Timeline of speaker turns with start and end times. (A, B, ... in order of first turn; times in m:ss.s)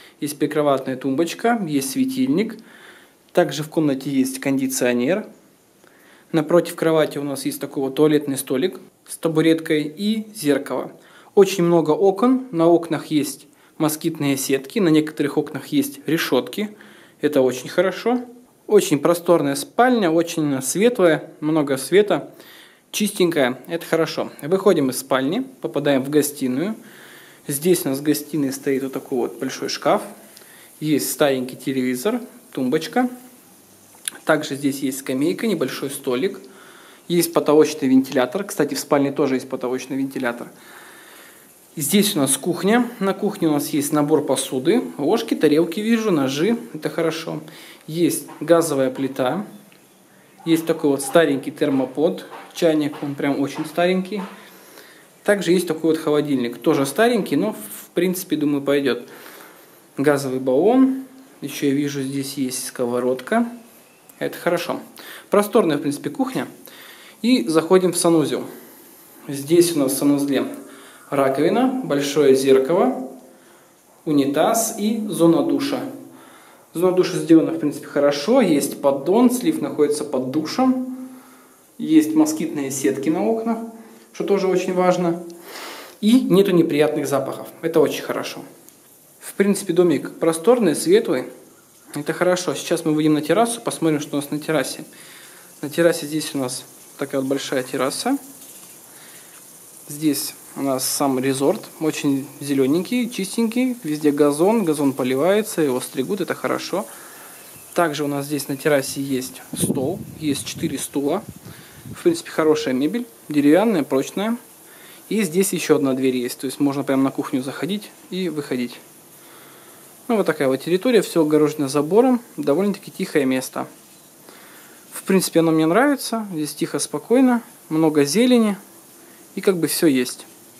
0:00.2-0:02.6 A
0:03.3-0:05.2 A
0:06.3-0:22.2 A
0:22.9-0:26.8 A
0:27.4-0:30.1 A
0:30.8-0:33.1 A
0:34.2-0:36.4 A
0:37.1-0:40.5 A
0:41.8-0:49.4 A
0:50.4-0:54.2 A
0:55.2-0:59.1 A
1:00.0-1:03.4 A
1:04.2-1:06.5 A
1:07.2-1:08.5 A
1:09.3-1:10.5 A
1:11.1-1:13.0 A
1:14.0-1:15.8 A
1:16.7-1:20.9 A
1:21.8-1:25.2 A
1:26.0-1:28.4 A
1:29.2-1:31.3 A
1:31.9-1:34.9 A
1:35.6-1:38.2 A
1:39.9-1:46.9 A
1:47.7-1:51.2 A
1:51.9-1:54.4 A
1:55.1-1:58.8 A
2:00.1-2:03.7 A
2:04.9-2:08.6 A
2:09.3-2:10.3 A